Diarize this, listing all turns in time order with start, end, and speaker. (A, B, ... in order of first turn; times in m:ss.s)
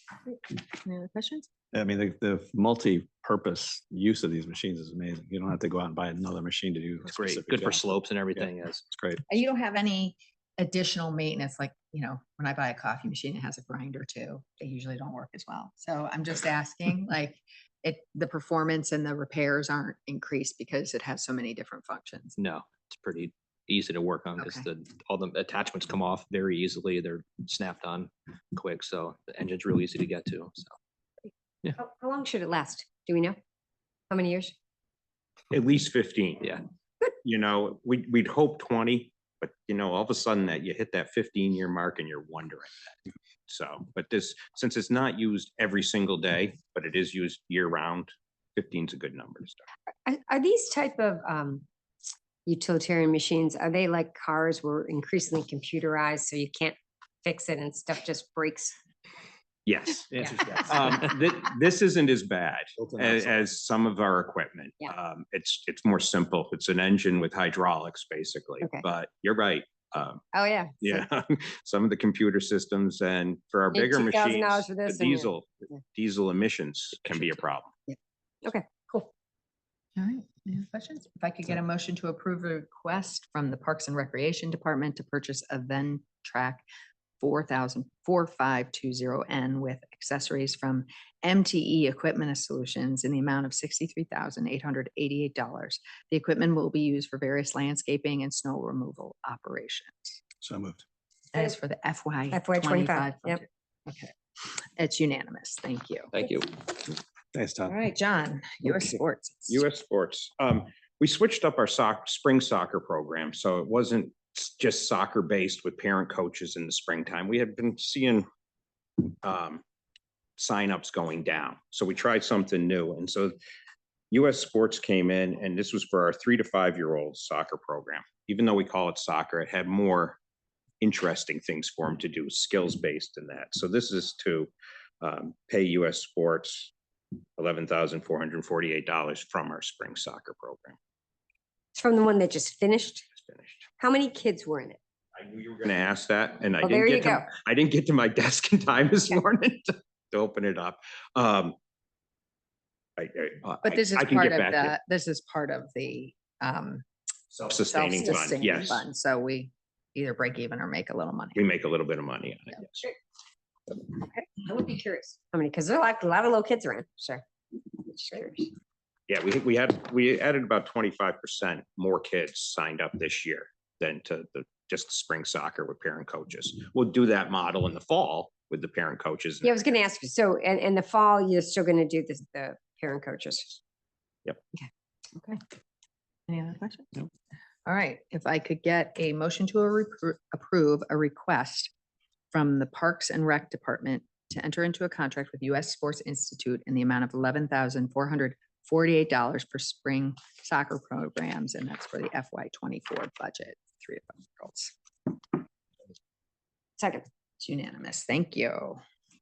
0:00.7-0:01.5 A
0:01.7-0:07.8 B
0:07.1-0:08.8 C
0:08.4-0:09.2 B
0:09.3-0:22.4 A
0:22.4-0:30.8 C
0:24.4-0:24.7 A
0:31.8-0:33.4 D
0:34.1-0:34.5 D
0:35.5-0:36.6 E
0:37.2-0:43.0 E
0:43.5-0:49.6 E
0:50.1-0:51.7 D
0:52.5-0:58.8 D
0:59.7-1:10.2 E
1:00.1-1:00.9 C
1:02.8-1:03.4 B
1:08.6-1:08.9 D
1:10.3-1:11.0 D
1:10.8-1:17.7 E
1:13.7-1:15.3 D
1:18.4-1:19.1 D
1:20.0-1:26.6 A
1:27.2-1:40.2 A
1:40.4-1:40.8 B
1:41.3-1:46.4 A
1:42.3-1:43.4 D
1:46.1-1:46.5 C
1:47.3-1:47.8 B
1:47.7-1:49.7 A
1:49.5-1:58.3 E
1:59.2-1:59.6 E
2:00.4-2:03.4 E
2:04.1-2:10.2 E
2:10.8-2:14.5 E
2:15.0-2:16.7 E
2:17.4-2:20.8 E
2:21.8-2:23.1 D
2:23.1-2:23.7 E
2:23.8-2:24.8 D
2:25.2-2:31.6 E
2:26.6-2:27.3 D
2:33.0-2:34.8 E
2:33.6-2:36.8 A
2:37.3-2:38.8 E
2:37.6-2:41.5 A
2:38.0-2:38.3 D
2:41.4-2:42.9 E
2:44.0-2:44.2 A
2:44.4-2:48.5 D
2:49.1-2:59.7 E
2:59.4-3:03.6 D
3:06.3-3:06.9 A
3:07.7-3:11.7 A
3:12.3-3:24.7 A
3:26.8-3:27.0 D
3:27.4-3:28.8 A